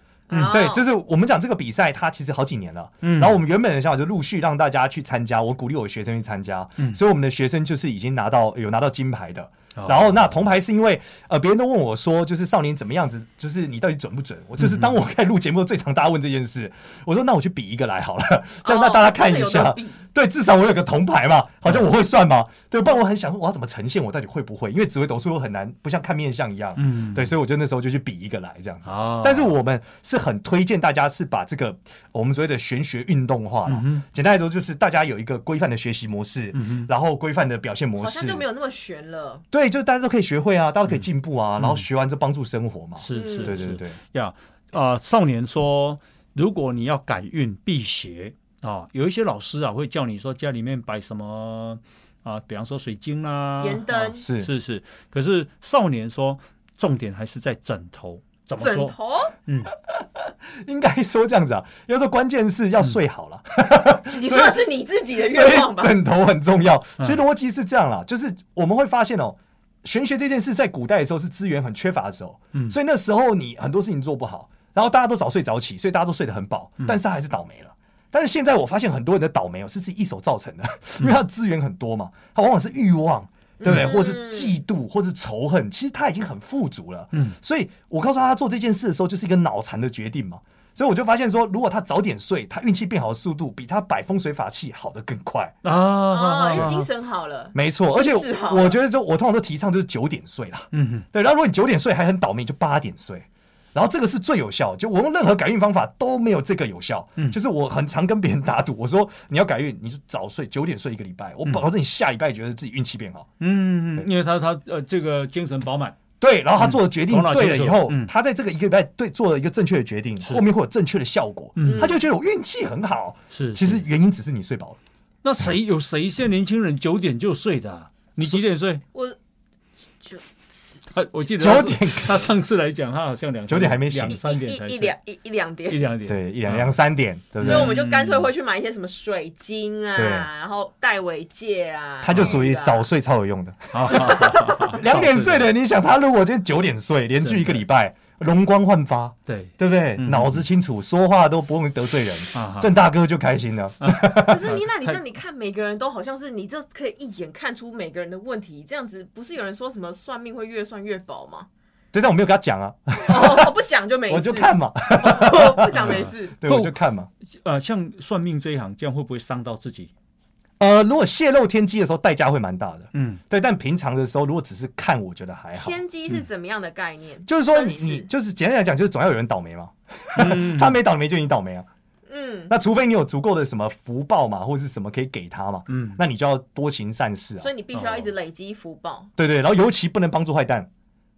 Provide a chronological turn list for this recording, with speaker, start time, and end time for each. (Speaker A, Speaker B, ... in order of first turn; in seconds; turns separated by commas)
Speaker A: 0.3-0.8, Speaker B: 0.3-38.5, Speaker C: 3.0-3.4, Speaker C: 9.8-10.2, Speaker C: 14.6-14.9, Speaker A: 18.6-20.0, Speaker C: 26.8-27.3, Speaker C: 28.9-29.5, Speaker C: 33.7-34.1, Speaker C: 36.5-36.9, Speaker A: 38.0-39.4, Speaker B: 39.5-44.0, Speaker C: 41.6-41.9, Speaker C: 43.0-59.7, Speaker A: 43.1-43.6, Speaker A: 53.6-54.3, Speaker B: 54.2-54.5, Speaker A: 58.6-59.3, Speaker B: 59.9-64.7, Speaker A: 64.1-66.0, Speaker B: 65.3-95.5, Speaker A: 83.6-84.6, Speaker C: 95.6-96.9, Speaker A: 96.1-98.8, Speaker B: 97.5-113.3, Speaker C: 100.7-101.0, Speaker C: 113.4-116.0, Speaker B: 116.2-124.8, Speaker C: 116.6-118.1, Speaker C: 121.6-122.0, Speaker A: 121.6-122.0, Speaker C: 123.3-123.8, Speaker C: 125.2-128.8, Speaker A: 130.0-130.8, Speaker C: 130.9-135.0, Speaker B: 131.3-132.4, Speaker B: 133.5-134.2, Speaker A: 134.1-135.9, Speaker C: 135.7-136.8, Speaker B: 136.1-137.8, Speaker C: 137.4-138.3, Speaker A: 137.4-142.9, Speaker B: 140.0-140.3, Speaker B: 142.0-154.6, Speaker C: 143.7-145.5, Speaker A: 144.0-144.7, Speaker C: 147.2-147.6, Speaker C: 149.3-150.4, Speaker C: 152.3-152.7, Speaker C: 153.8-155.0, Speaker A: 154.3-161.5, Speaker B: 161.9-163.5, Speaker A: 163.0-166.4, Speaker B: 164.1-167.1, Speaker C: 165.8-166.8, Speaker C: 167.4-169.9, Speaker B: 170.6-175.8, Speaker C: 172.9-173.2, Speaker A: 175.6-178.1, Speaker B: 177.3-181.7, Speaker C: 180.2-180.8, Speaker A: 182.1-182.5, Speaker B: 182.5-187.5, Speaker C: 185.7-186.0, Speaker A: 187.4-189.1, Speaker C: 187.7-188.1, Speaker B: 189.2-190.7